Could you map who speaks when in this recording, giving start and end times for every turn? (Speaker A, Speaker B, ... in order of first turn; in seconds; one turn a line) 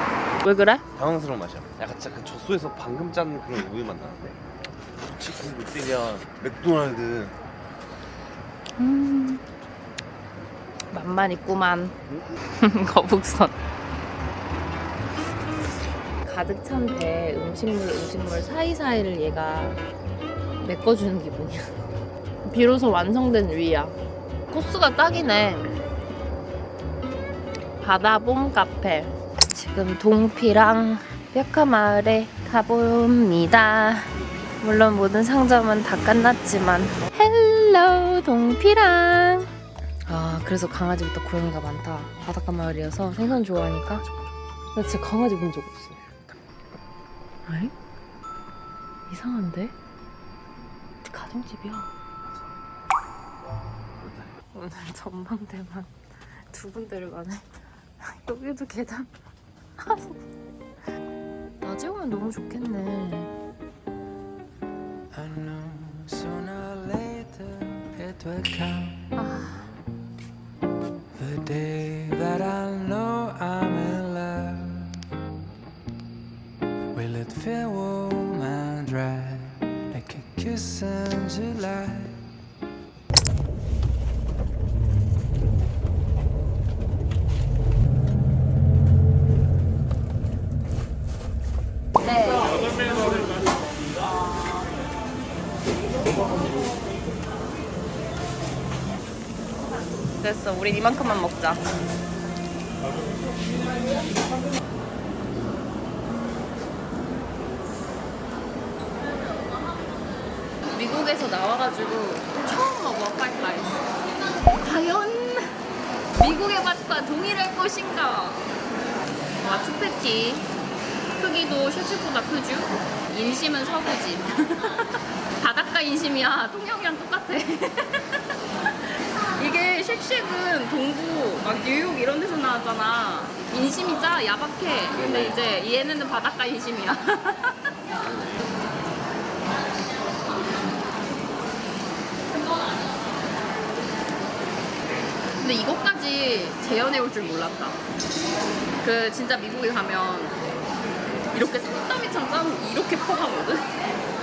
Speaker A: 0.4-0.8
Speaker B: 0.9-4.3
Speaker B: 5.0-7.3
Speaker A: 8.8-9.4
Speaker A: 10.9-11.9
Speaker A: 12.6-13.6
Speaker A: 16.2-19.8
Speaker A: 20.6-21.8
Speaker A: 22.4-23.9
Speaker A: 24.5-25.7
Speaker A: 27.8-39.5
Speaker A: 40.0-44.0
Speaker A: 44.7-46.1
Speaker A: 47.4-47.7
Speaker A: 49.1-49.7
Speaker A: 51.0-51.9
Speaker A: 54.5-55.9
Speaker A: 56.5-57.5
Speaker A: 58.0-59.1
Speaker A: 59.8-60.1
Speaker A: 61.6-63.3
Speaker C: 65.1-69.1
Speaker A: 69.2-69.7
Speaker C: 71.1-75.1
Speaker C: 76.9-82.2
Speaker A: 92.0-92.7
Speaker A: 100.2-101.6
Speaker A: 110.7-113.9
Speaker A: 114.5-115.6
Speaker A: 116.1-118.5
Speaker A: 119.4-120.5
Speaker A: 121.2-128.2
Speaker A: 129.2-137.7
Speaker A: 145.4-147.8
Speaker A: 148.8-150.4
Speaker A: 151.3-153.7